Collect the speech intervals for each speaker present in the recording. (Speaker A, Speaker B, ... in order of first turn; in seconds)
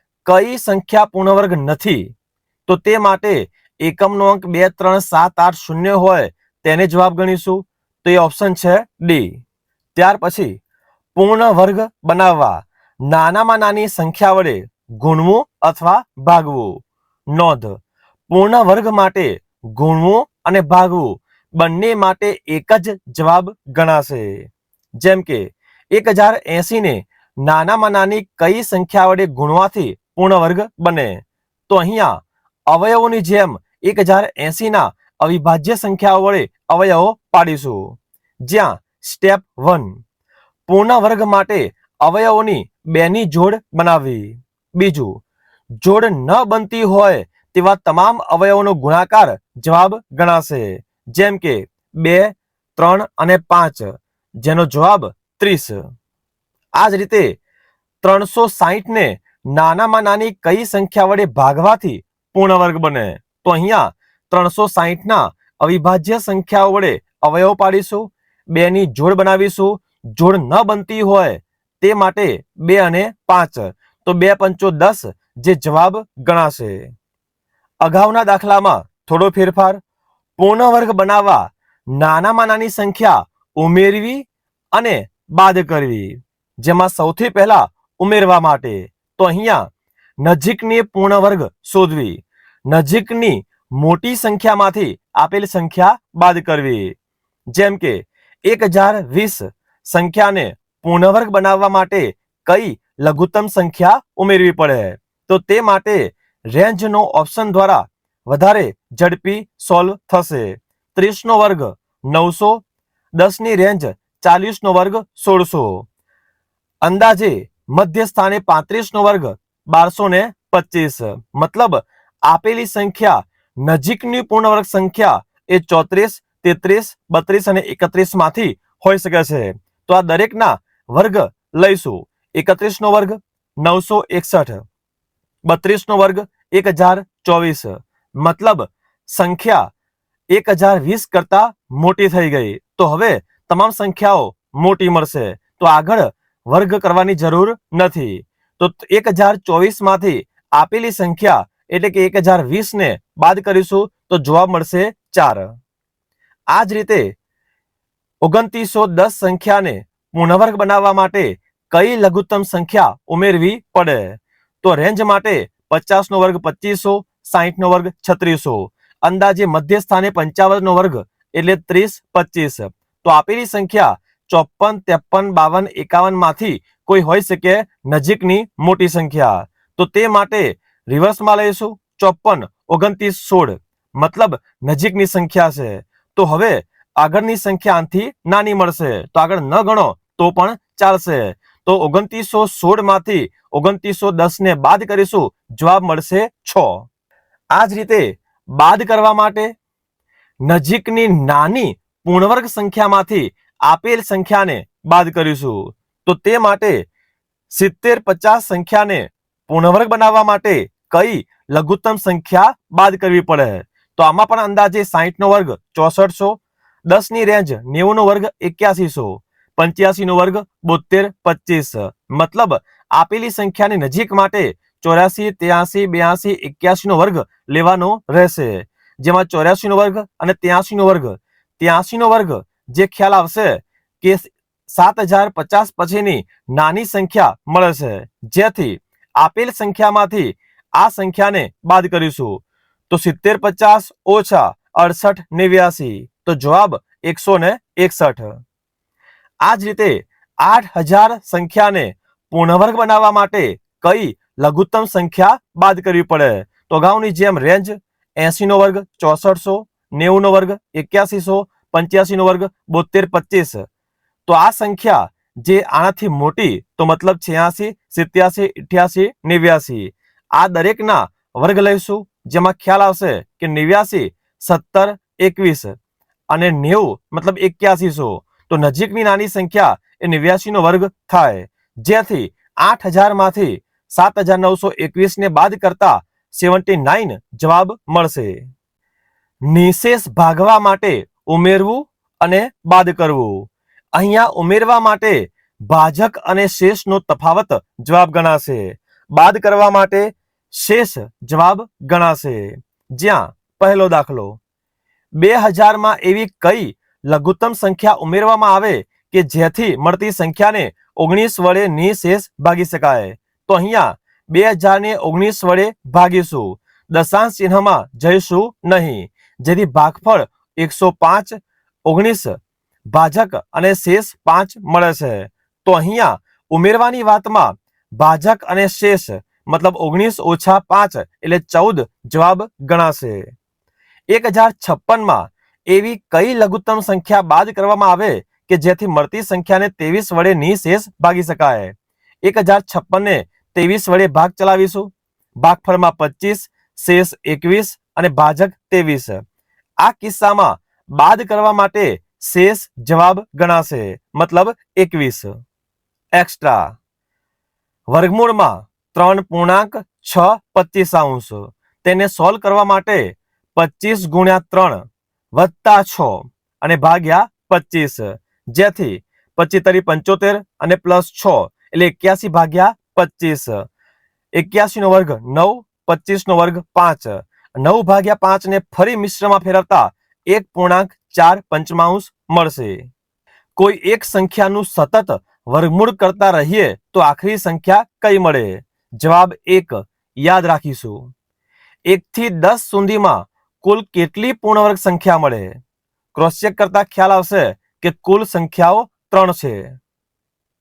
Speaker A: 0.2-2.1, 2.7-9.4, 10.0-10.6, 11.2-40.0, 40.7-45.2, 45.8-55.9, 56.8-57.4, 58.0-76.9, 77.8-79.8, 80.4-89.7, 90.2-97.0, 97.5-112.6, 113.2-115.9, 116.8-134.6, 135.5-139.7, 140.3-155.5, 156.5-157.1, 158.2-196.9, 197.5-199.5, 200.5-206.9, 207.5-248.4, 249.4-263.7, 264.3-275.8, 276.3-288.5, 289.5-304.4, 305.2-322.4, 322.9-333.3, 334.1-349.2, 349.8-355.3, 356.1-356.8, 357.9-373.6, 374.3-382.9, 383.6-391.1, 391.9-395.6, 396.1-399.8